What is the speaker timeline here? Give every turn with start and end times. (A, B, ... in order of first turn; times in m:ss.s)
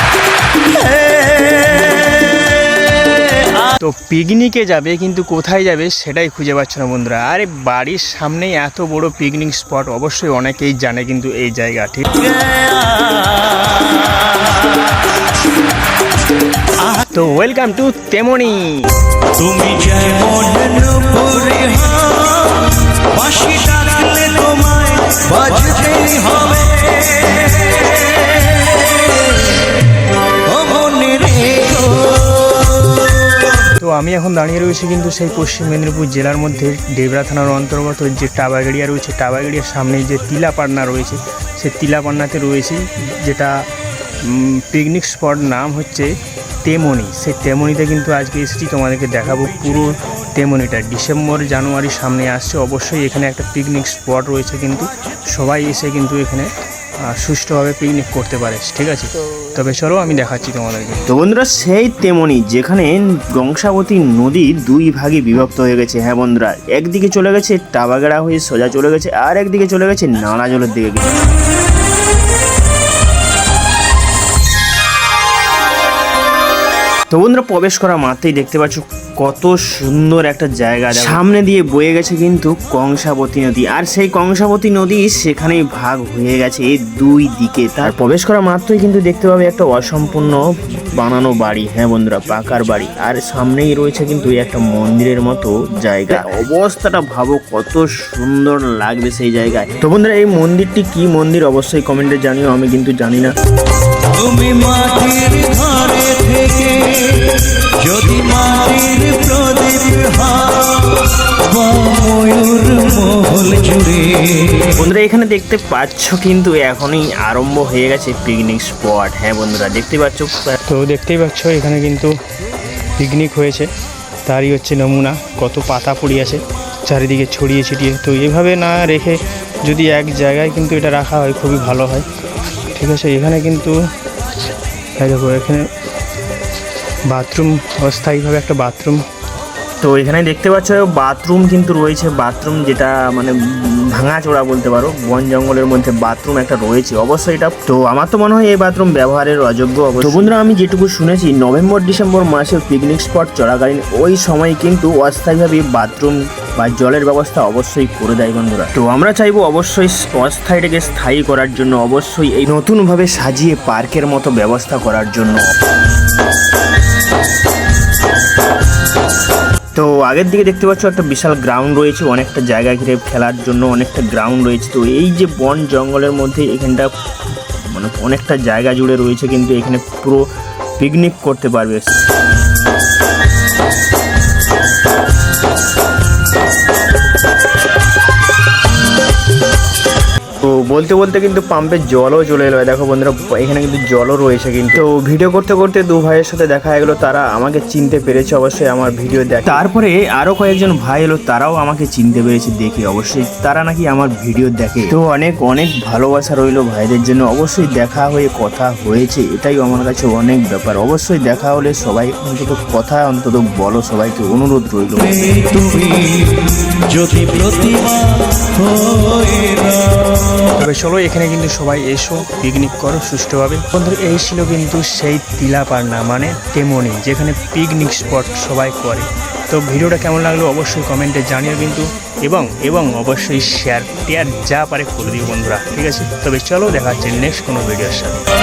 0:00.8-0:01.8 A
0:03.8-0:12.1 B
0:12.3-0:14.1 A
0:17.1-0:18.7 B
0:19.3-0:29.2 A
0:30.5-0:32.9 A
0:33.8-0:43.6 B
0:44.3-0:46.1 B
0:46.6-0:56.5 B
0:57.1-1:01.0 B
1:01.1-1:11.2 C
1:17.1-1:30.4 C
1:31.0-1:43.3 C
1:44.1-1:54.7 A
1:54.7-2:00.5 C
2:00.6-2:02.1 B
2:03.0-2:03.7 B
2:04.2-2:12.0 B
2:12.7-2:13.8 B
2:15.0-2:15.6 B
2:17.1-2:19.0 B
2:19.8-2:45.4 C
2:49.7-2:56.9 C
2:57.7-3:00.2 C
3:00.8-3:01.9 C
3:10.4-3:35.2 C
3:35.1-3:40.4 A
3:40.6-3:58.2 B